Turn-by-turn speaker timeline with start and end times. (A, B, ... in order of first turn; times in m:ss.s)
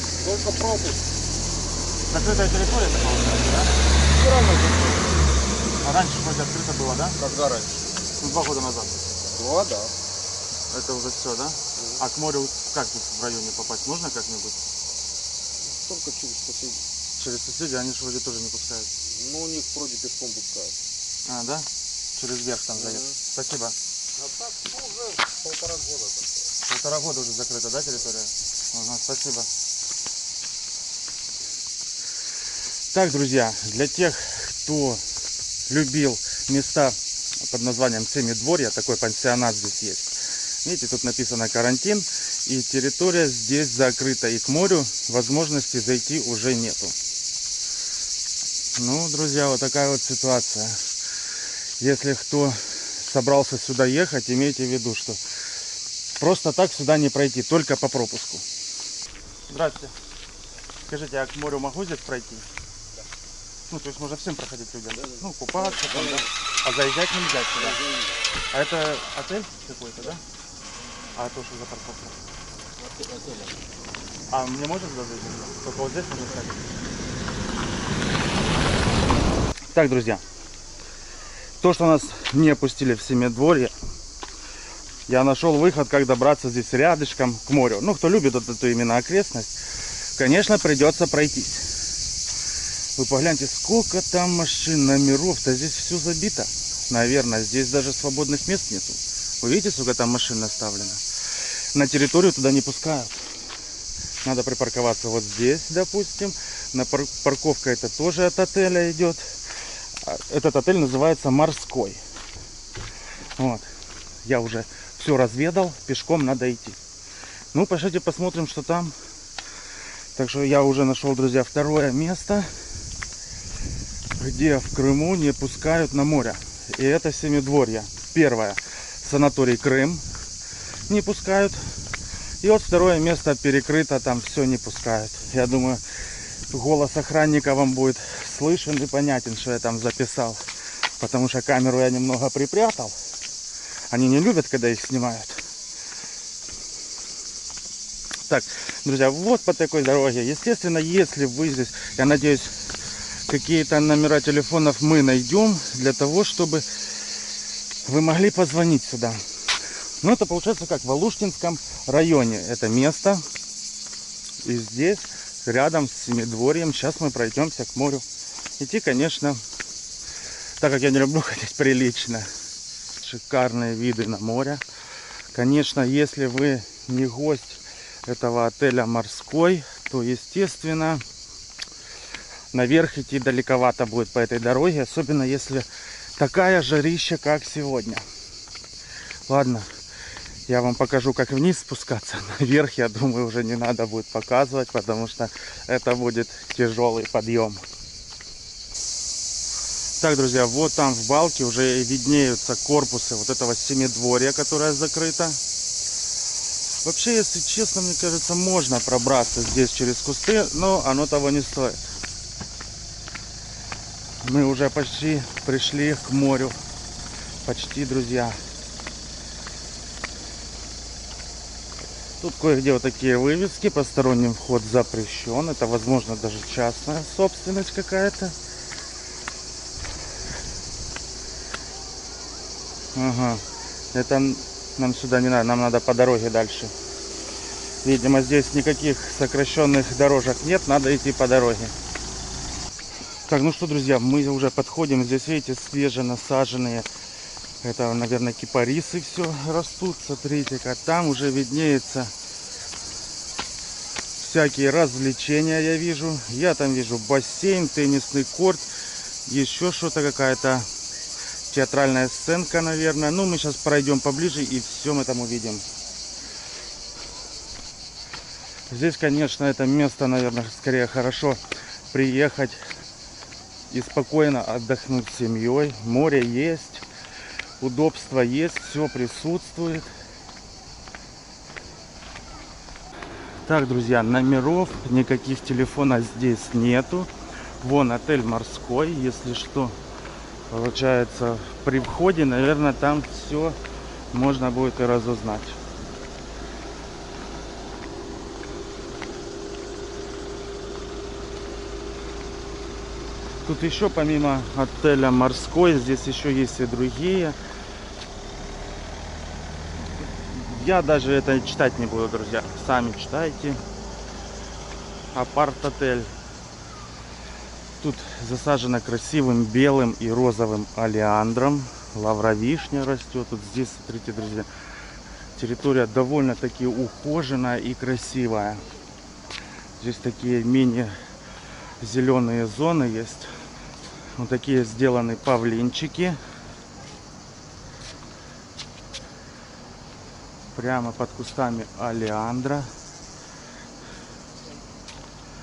0:00.2-0:01.0 A
0:02.1-0:03.7 B
0:04.2-0:05.1 A
0:05.8-0:07.2 B
0:07.2-0:07.8 A
0:08.2-0:09.1 B
0:09.3-0:09.9 A
0:10.7-0:14.6 B
0:15.6-0:16.8 A
0:17.1-0:18.9 B
0:19.1-0:20.8 A
0:21.2-0:23.8 B
0:24.5-0:26.2 A
0:26.6-0:29.5 B
0:32.9-0:35.0 B
0:35.7-0:47.0 B
0:48.8-0:50.8 B
0:51.8-0:55.2 B
0:56.2-0:58.4 B
0:59.5-0:59.9 B
1:00.9-1:02.5 B
1:03.7-1:07.8 B
1:08.5-1:10.2 B
1:11.1-1:12.2 B
1:13.0-1:13.5 A
1:14.3-1:16.7 B
1:19.7-1:20.2 B
1:21.6-1:23.7 B
1:25.1-1:29.6 B
1:30.1-1:31.7 B
1:33.0-1:41.0 B
1:41.7-1:43.2 B
1:44.2-1:49.3 B
1:50.0-1:52.0 B
1:53.4-1:53.7 B
1:54.2-1:56.8 B
1:57.5-1:58.9 B
2:00.1-2:02.5 B
2:04.2-2:10.0 B
2:10.9-2:11.6 B
2:12.4-2:15.8 B
2:16.5-2:20.4 B
2:21.0-2:22.9 B
2:23.9-2:25.4 B
2:28.3-2:32.7 B
2:33.3-2:36.6 B
2:37.8-2:39.2 B
2:40.0-2:43.2 B
2:44.4-2:48.0 B
2:48.6-2:49.4 B
2:50.6-2:52.3 B
2:53.0-2:54.6 B
2:55.3-3:01.0 B
3:02.5-3:05.6 B
3:06.2-3:08.0 B
3:09.3-3:09.7 B
3:10.5-3:17.6 B
3:20.0-3:25.4 B
3:26.8-3:31.9 B
3:34.2-3:36.6 B
3:37.4-3:38.4 B
3:42.2-3:48.4 B
3:52.9-3:56.7 B
3:57.8-4:01.7 B
4:03.3-4:06.9 B
4:07.6-4:12.1 B
4:14.2-4:18.6 B
4:19.2-4:20.7 B
4:21.5-4:25.6 B
4:28.7-4:31.4 B
4:31.9-4:32.6 B
4:33.7-4:36.8 B
4:37.6-4:39.9 B
4:43.4-4:47.1 B
4:47.6-4:49.8 B
4:50.5-4:53.6 B
4:54.1-4:55.6 B
5:03.4-5:07.4 B
5:10.0-5:13.6 B
5:15.1-5:16.1 B
5:17.8-5:24.5 B
5:25.4-5:28.6 B
5:29.8-5:30.9 B
5:31.8-5:33.3 B
5:34.1-5:36.2 B
5:40.5-5:42.7 B